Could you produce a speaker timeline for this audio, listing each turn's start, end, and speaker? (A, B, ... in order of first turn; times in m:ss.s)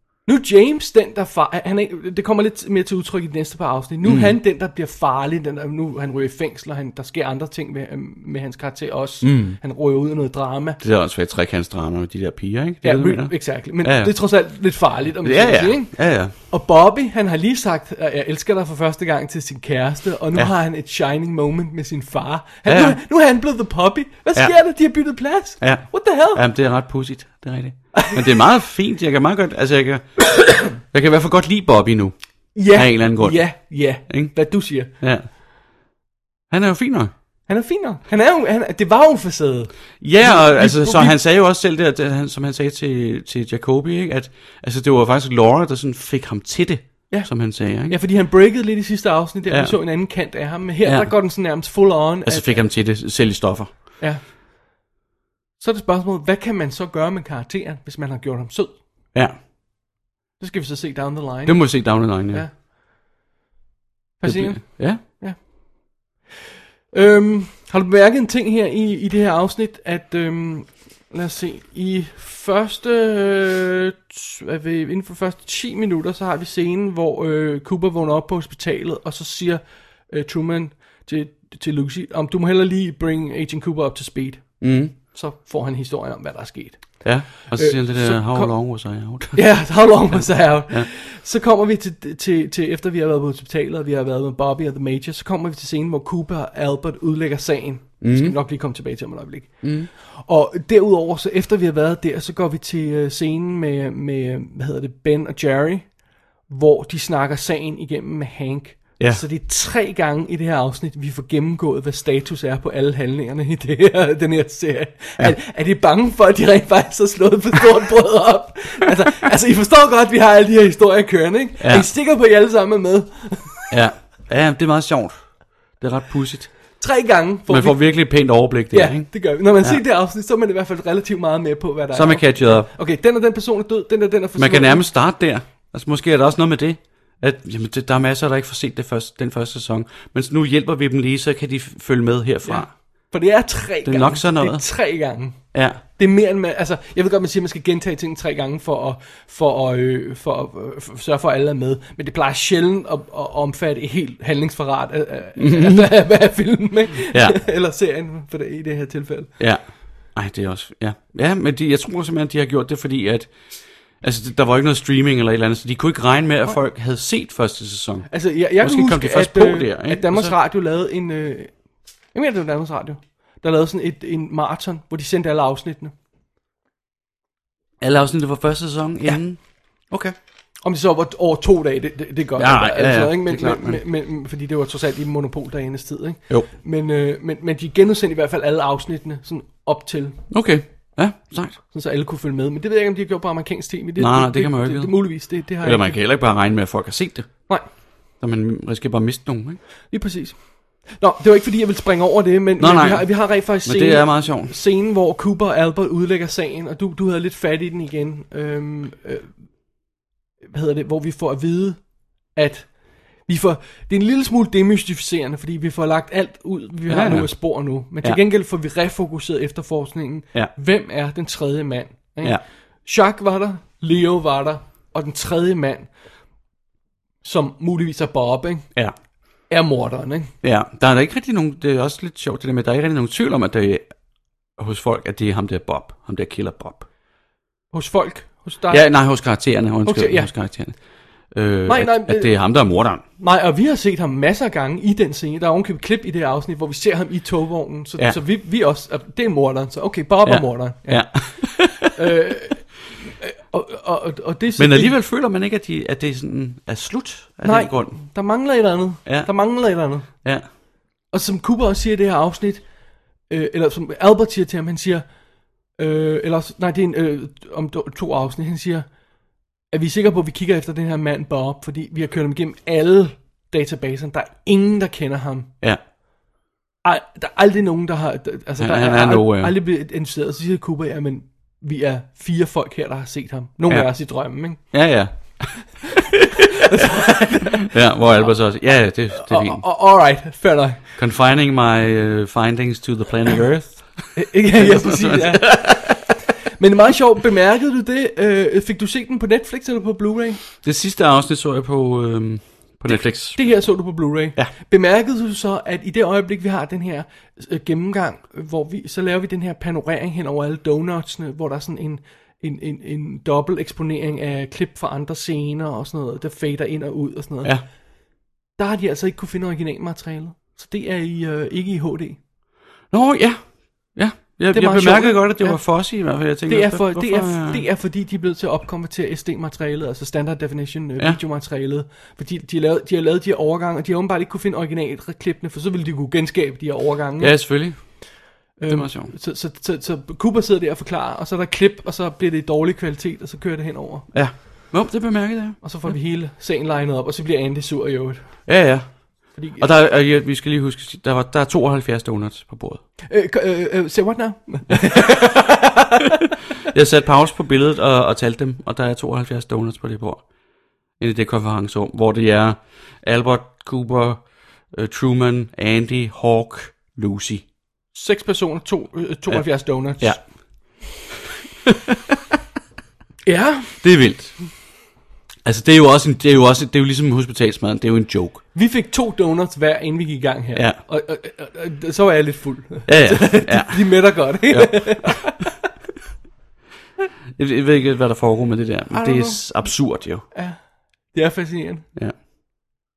0:00.2-0:10.8 A
0:04.0-0:04.4 B
0:09.2-0:09.6 B
0:10.8-0:14.6 B
0:12.8-0:26.4 A
0:15.2-0:16.3 B
0:22.6-0:23.0 B
0:24.3-0:24.6 B
0:25.6-0:35.3 B
0:32.5-0:34.9 A
0:36.5-0:37.1 B
0:37.5-0:41.2 A
0:40.0-0:48.0 B
0:47.1-0:52.6 A
0:49.5-0:50.0 B
0:50.8-0:51.7 B
0:52.2-0:54.0 B
0:55.6-0:58.8 A
0:59.1-0:59.4 B
1:00.4-1:02.6 A
1:01.4-1:02.5 B
1:04.2-1:06.0 A
1:04.2-1:05.0 B
1:06.9-1:28.6 A
1:24.6-1:24.9 B
1:27.0-1:30.9 B
1:29.3-1:45.9 A
1:38.0-1:38.4 B
1:39.6-1:39.9 B
1:46.5-2:03.7 A
2:01.6-2:01.9 B
2:03.7-2:06.8 B
2:06.8-2:14.8 A
2:07.5-2:09.8 B
2:11.9-2:12.7 B
2:14.4-2:22.7 B
2:22.4-2:39.3 A
2:23.8-2:24.7 B
2:25.5-2:25.8 B
2:35.4-2:36.0 B
2:37.1-2:37.4 B
2:39.4-2:50.4 B
2:48.1-2:51.6 A
2:52.1-2:55.9 A
2:57.8-3:00.1 B
3:00.6-3:10.3 A
3:02.4-3:03.8 B
3:10.3-3:11.6 B
3:11.7-3:16.0 A
3:14.0-3:17.5 B
3:18.2-3:19.6 B
3:19.9-3:29.3 A
3:22.6-3:24.5 B
3:30.4-3:45.9 A
3:36.9-3:38.2 B
3:47.2-3:48.7 A
3:49.5-3:50.3 A
3:50.4-3:53.9 B
3:54.6-3:56.9 B
3:57.7-3:58.9 A
3:58.7-4:03.0 B
3:59.8-4:00.3 A
4:01.7-4:14.9 A
4:10.2-4:11.9 B
4:14.6-4:18.0 B
4:17.4-4:20.2 A
4:19.0-4:20.4 B
4:21.1-4:22.6 A
4:23.3-4:25.0 A
4:25.7-4:28.9 A
4:29.7-4:35.5 A
4:36.8-4:44.8 A
4:38.6-4:39.6 B
4:43.7-4:45.9 B
4:46.6-4:50.9 A
4:47.6-4:49.7 B
4:51.0-4:56.1 B
4:54.1-5:00.4 A
5:00.6-5:03.6 B
5:02.9-5:17.8 A
5:18.5-5:22.2 A
5:22.9-5:27.6 B
5:24.5-5:37.9 A
5:37.2-5:39.1 B
5:38.6-5:44.1 A
5:44.1-5:45.9 B
5:45.6-5:48.7 A
5:48.4-5:52.8 B
5:49.3-5:49.6 A
5:53.1-5:55.7 A
5:56.7-6:00.3 B
6:01.0-6:07.4 B
6:07.9-6:10.2 A
6:09.3-6:11.0 B
6:13.2-6:13.8 A
6:13.8-6:14.8 B
6:15.4-6:18.4 B
6:18.5-6:25.5 A
6:22.8-6:25.3 B
6:27.4-6:30.2 B
6:28.9-6:29.8 A
6:30.3-6:31.8 A